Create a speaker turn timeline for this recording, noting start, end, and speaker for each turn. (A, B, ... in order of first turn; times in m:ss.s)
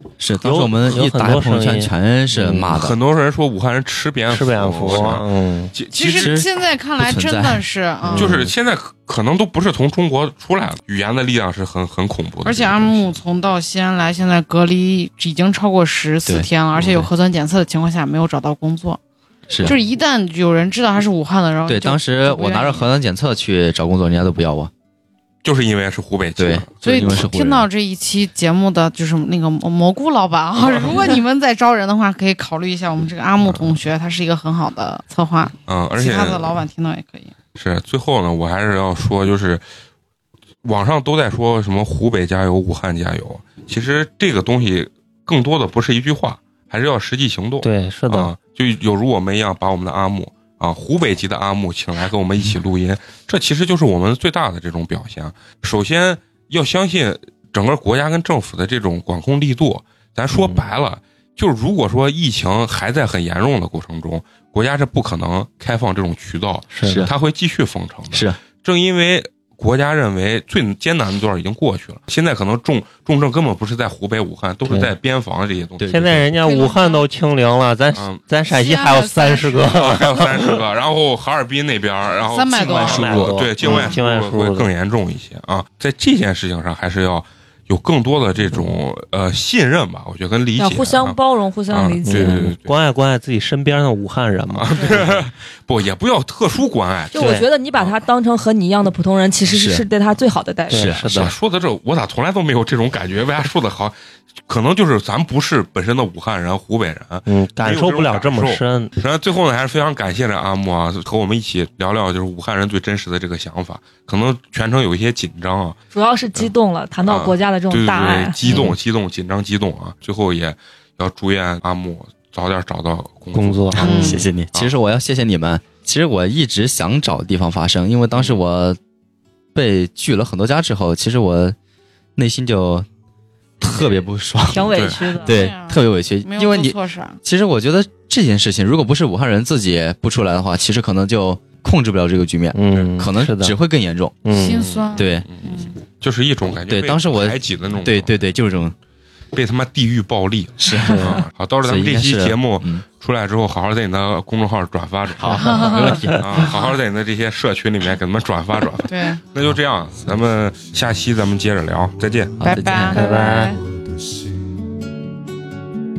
0:00.2-0:03.0 A
0:00.4-0:02.8 B
0:02.8-0:06.4 C
0:04.3-0:05.7 B
0:05.9-0:08.4 D
0:06.2-0:08.5 A
0:08.2-0:13.1 C
0:12.4-0:19.0 D
0:16.3-0:17.1 A
0:19.5-0:19.8 A
0:19.6-0:22.9 D
0:21.7-0:24.7 A
0:25.4-0:27.2 C
0:26.4-0:27.7 A
0:26.8-0:37.3 D
0:30.6-0:30.9 C
0:33.4-0:33.8 C
0:35.7-0:36.6 C
0:37.6-0:39.6 C
0:40.6-1:16.3 C
0:47.6-0:48.3 B
1:00.3-1:00.7 B
1:06.7-1:07.1 B
1:06.8-1:07.1 A
1:08.1-1:08.4 A
1:14.7-1:14.9 B
1:15.8-1:16.2 A
1:15.9-1:20.6 B
1:16.4-1:17.1 D
1:17.9-1:18.2 C
1:18.5-1:19.8 D
1:19.7-1:32.7 C
1:22.2-1:23.2 D
1:22.6-1:23.9 A
1:22.8-1:24.7 B
1:30.6-1:32.5 E
1:32.1-1:35.3 B
1:34.6-1:37.2 C
1:37.1-1:41.0 E
1:37.2-1:37.5 B
1:37.8-1:38.0 C
1:39.4-1:39.9 A
1:40.7-1:41.3 B
1:40.7-1:41.3 A
1:41.0-1:44.0 C
1:44.5-1:55.8 C
1:47.3-1:48.9 B
1:55.9-1:58.4 E
1:57.0-2:04.7 C
1:58.5-1:58.7 A
1:58.5-1:58.7 B
2:03.3-2:04.0 B
2:03.7-2:08.8 A
2:03.8-2:04.2 D
2:08.1-2:08.4 C
2:09.5-2:11.6 A
2:12.2-2:12.9 A
2:13.6-2:24.2 A
2:14.5-2:15.5 E
2:14.7-2:15.0 C
2:15.1-2:17.2 D
2:22.5-2:23.6 B
2:24.2-2:24.7 B
2:24.3-2:25.7 D
2:24.4-2:28.2 C
2:25.0-2:25.3 A
2:26.7-2:28.8 A
2:29.3-2:42.4 C
2:30.6-2:32.8 A
2:30.9-2:31.2 B
2:35.2-2:36.5 A
2:35.4-2:36.8 D
2:38.9-2:39.2 D
2:39.9-2:44.9 F
2:42.4-2:43.0 A
2:42.4-2:43.6 D
2:42.9-2:43.5 B